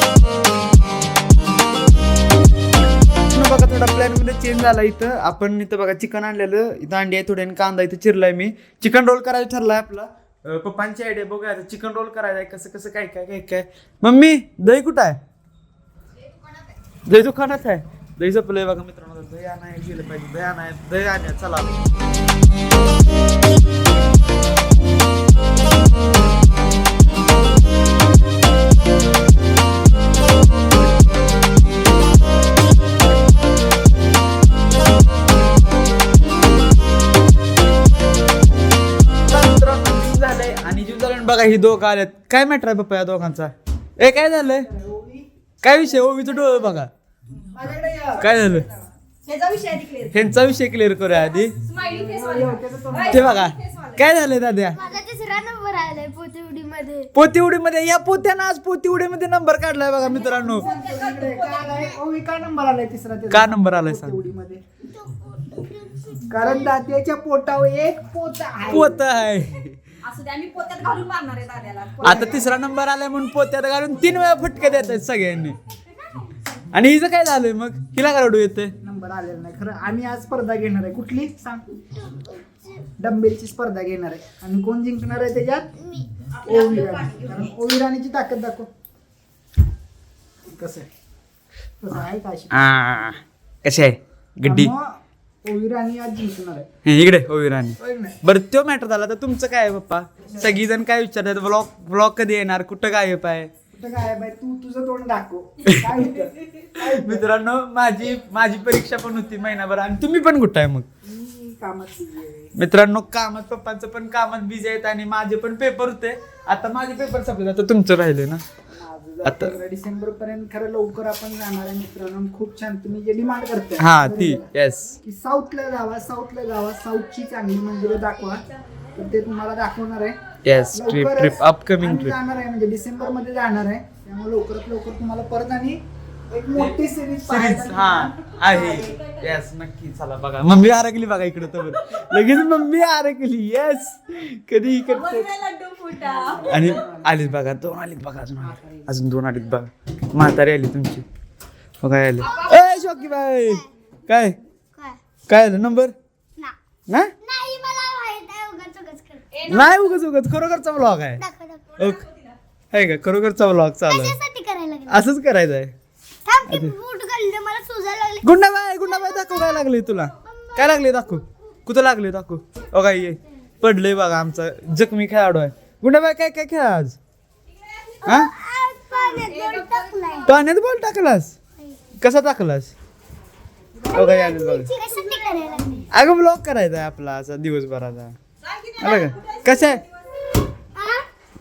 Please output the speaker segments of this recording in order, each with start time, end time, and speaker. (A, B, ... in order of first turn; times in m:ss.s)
0:03.3-0:15.2 A
0:17.0-0:21.8 A
0:39.3-0:44.7 A
0:44.6-0:45.3 B
0:45.6-0:46.9 A
0:47.4-0:48.8 B
0:48.2-0:48.7 A
0:49.2-0:50.2 C
0:50.1-0:51.5 A
0:51.5-0:54.0 C
0:51.8-0:53.5 B
0:53.1-0:54.8 A
0:54.7-0:57.1 D
0:57.1-1:00.6 A
1:00.0-1:01.9 C
1:00.4-1:04.6 B
1:03.3-1:04.2 A
1:04.9-1:06.7 D
1:06.3-1:09.0 B
1:08.7-1:09.8 A
1:10.0-1:12.2 C
1:12.0-1:12.5 B
1:12.0-1:15.6 A
1:16.7-1:18.7 A
1:18.8-1:21.9 B
1:22.0-1:22.8 D
1:22.9-1:28.7 B
1:26.4-1:27.4 C
1:30.5-1:30.9 B
1:31.8-1:32.5 B
1:32.5-1:34.7 A
1:34.4-1:36.7 B
1:36.8-1:43.5 A
1:37.8-1:38.2 B
1:43.7-1:47.3 B
1:45.6-1:46.2 A
1:46.8-1:50.9 A
1:51.0-1:52.5 B
1:52.5-1:58.4 A
1:58.7-2:04.4 B
1:59.2-1:59.5 A
2:03.8-2:05.0 A
2:05.0-2:08.4 B
2:08.9-2:10.2 B
2:10.4-2:12.1 A
2:10.7-2:19.0 B
2:16.6-2:25.3 A
2:24.9-2:26.7 C
2:26.0-2:27.2 B
2:26.4-2:31.0 A
2:28.4-2:28.9 B
2:31.8-2:34.4 A
2:32.2-2:33.6 D
2:35.3-2:35.9 A
2:37.2-2:39.5 D
2:39.4-2:39.9 C
2:39.5-2:41.2 A
2:41.2-2:41.9 D
2:41.8-2:42.0 A
2:41.9-2:42.3 C
2:42.7-2:44.2 A
2:43.9-2:45.0 D
2:44.9-2:45.7 A
2:46.2-2:51.3 D
2:46.5-2:46.7 A
2:48.2-2:57.0 A
2:58.0-3:00.3 D
2:58.0-2:58.3 A
2:58.9-3:00.2 C
3:00.2-3:01.4 A
3:02.0-3:02.7 A
3:03.8-3:05.8 D
3:03.9-3:04.7 A
3:05.9-3:08.2 A
3:08.4-3:09.8 C
3:08.8-3:09.8 A
3:10.7-3:11.1 D